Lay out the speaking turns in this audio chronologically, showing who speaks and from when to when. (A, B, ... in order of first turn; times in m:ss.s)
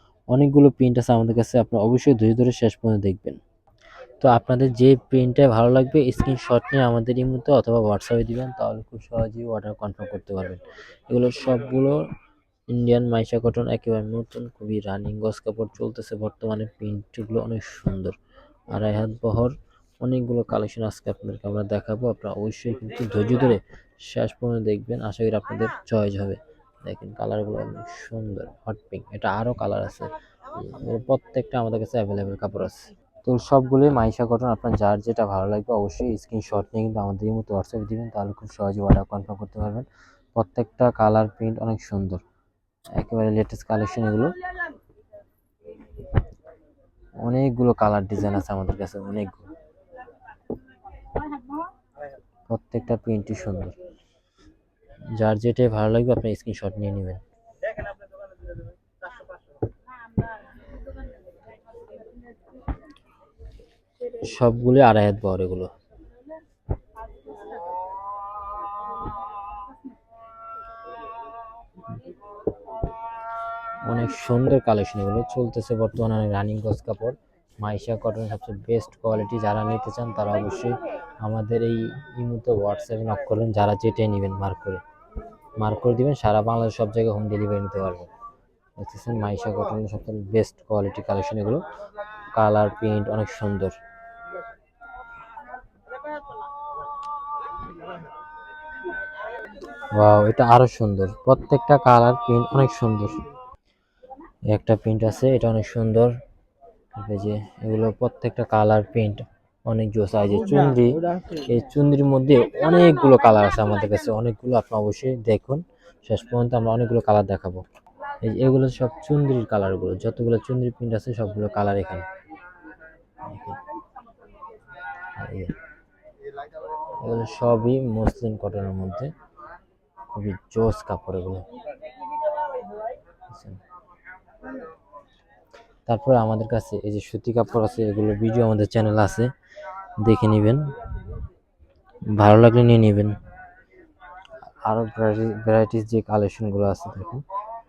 0:00.3-0:03.4 A
0:04.2-0:12.0 A
0:12.7-0:18.2 A
0:18.7-0:42.2 A
0:43.0-0:44.4 A
0:47.2-0:49.5 A
0:52.5-0:53.8 A
0:55.2-0:57.2 A
1:04.0-1:05.7 A
1:13.9-1:24.8 A
1:25.6-1:28.1 A
1:28.8-1:31.6 A
1:32.3-1:33.8 A
1:39.9-1:43.2 A
1:44.5-1:46.1 A
1:47.0-1:57.6 A
1:58.2-2:02.1 A
2:03.2-2:03.6 A
2:05.2-2:05.6 A
2:07.0-2:09.1 A
2:10.1-2:11.5 A
2:13.3-2:13.6 A
2:15.9-2:19.3 A
2:20.0-2:20.7 A
2:22.1-2:23.2 A
2:24.6-2:27.2 A